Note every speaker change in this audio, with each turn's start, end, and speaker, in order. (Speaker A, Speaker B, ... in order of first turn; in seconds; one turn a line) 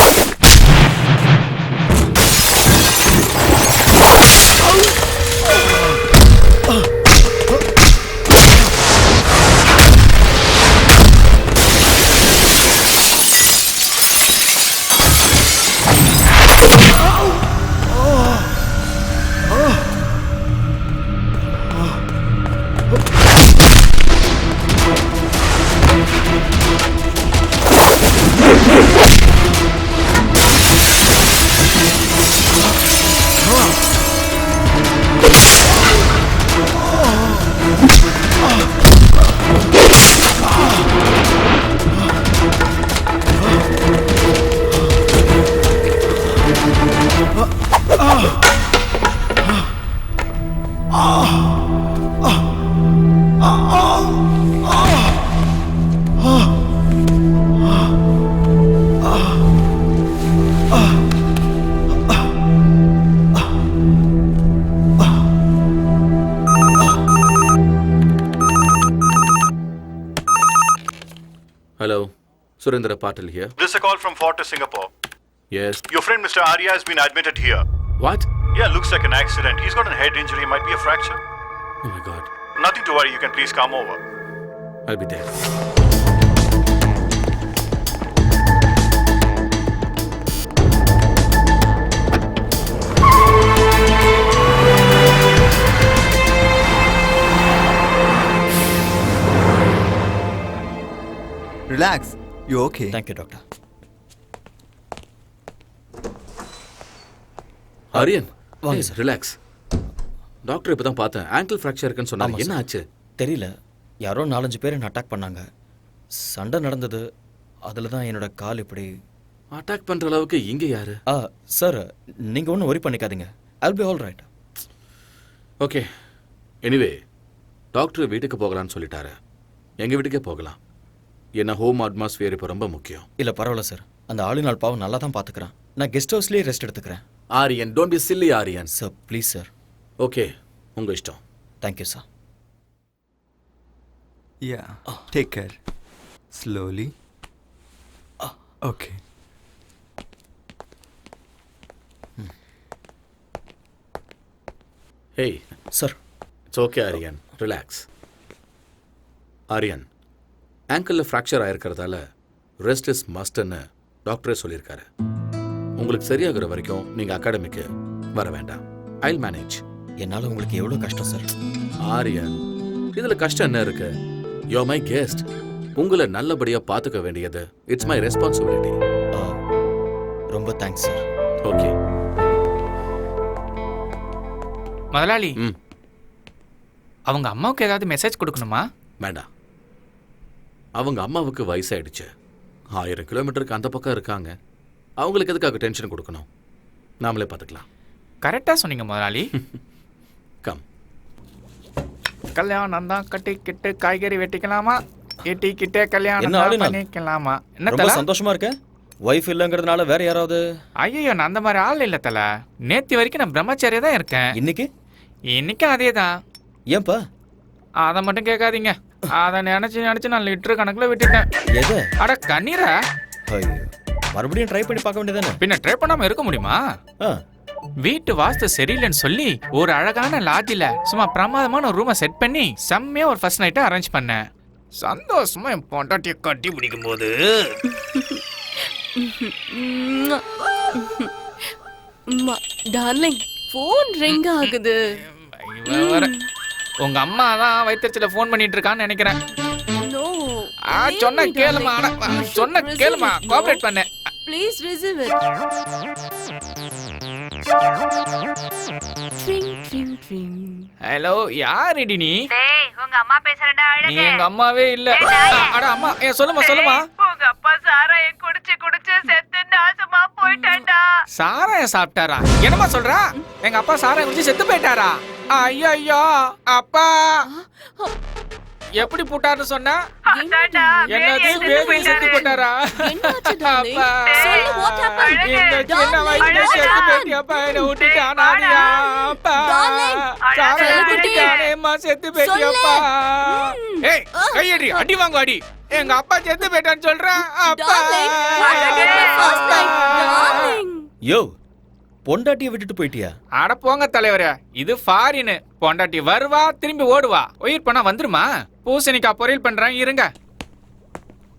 Speaker A: 71.8-72.1
Speaker A: 72.6-73.5
Speaker B: 73.6-74.9
Speaker A: 75.5-75.9
Speaker B: 75.9-77.6
Speaker A: 78.0-78.3
Speaker B: 78.5-81.2
Speaker A: 81.8-82.3
Speaker B: 82.6-84.0
Speaker A: 84.9-85.3
Speaker C: 101.7-103.0
Speaker D: 102.9-103.4
Speaker D: 107.9-109.0
Speaker A: 107.9-109.3
Speaker A: 110.5-112.8
Speaker D: 112.2-112.6
Speaker D: 113.2-113.5
Speaker D: 114.0-115.4
Speaker D: 116.2-117.0
Speaker D: 117.7-118.9
Speaker A: 119.5-121.0
Speaker D: 121.1-124.3
Speaker A: 125.6-125.9
Speaker A: 126.6-127.0
Speaker A: 127.7-129.2
Speaker A: 129.8-130.6
Speaker A: 131.4-133.1
Speaker D: 133.2-137.0
Speaker A: 137.3-138.7
Speaker D: 138.7-139.5
Speaker A: 140.0-141.2
Speaker D: 141.6-142.0
Speaker C: 144.4-145.6
Speaker C: 146.3-146.9
Speaker C: 148.6-149.0
Speaker A: 156.5-157.8
Speaker A: 159.5-159.8
Speaker A: 160.7-162.0
Speaker A: 162.6-164.9
Speaker A: 165.8-169.6
Speaker D: 170.0-171.3
Speaker A: 171.8-172.4
Speaker A: 172.9-173.9
Speaker A: 174.5-178.8
Speaker D: 180.3-181.0
Speaker A: 181.4-181.7
Speaker E: 184.9-185.3
Speaker E: 187.1-188.6
Speaker A: 189.0-189.2
Speaker A: 190.8-192.1
Speaker A: 192.8-194.3
Speaker A: 195.0-196.2
Speaker A: 197.0-197.6
Speaker E: 198.2-199.3
Speaker E: 202.3-208.0
Speaker D: 206.2-206.8
Speaker D: 207.7-208.5
Speaker D: 209.1-210.4
Speaker E: 210.8-214.3
Speaker D: 214.3-214.7
Speaker E: 215.3-216.1
Speaker D: 216.7-217.0
Speaker E: 217.8-221.2
Speaker D: 221.6-221.9
Speaker E: 222.0-222.7
Speaker D: 223.3-225.4
Speaker E: 225.4-226.6
Speaker E: 227.8-234.2
Speaker E: 234.8-237.5
Speaker F: 237.7-238.2
Speaker F: 238.9-241.1
Speaker F: 242.1-245.0
Speaker E: 245.1-246.1
Speaker F: 245.7-246.3
Speaker E: 246.8-249.2
Speaker F: 249.8-253.6
Speaker E: 250.7-253.9
Speaker F: 254.2-255.3
Speaker F: 259.2-260.7
Speaker E: 260.8-262.3
Speaker G: 262.3-264.2
Speaker E: 263.8-266.9
Speaker G: 265.0-265.6
Speaker G: 266.4-270.8
Speaker F: 270.2-270.7
Speaker E: 271.1-277.3
Speaker F: 277.3-277.9
Speaker E: 278.8-279.8
Speaker F: 280.1-291.5
Speaker E: 280.9-300.6
Speaker G: 284.2-284.5
Speaker G: 290.3-290.7
Speaker F: 292.1-294.8
Speaker F: 297.4-300.9
Speaker G: 298.7-299.1
Speaker D: 302.1-303.1
Speaker E: 303.4-310.1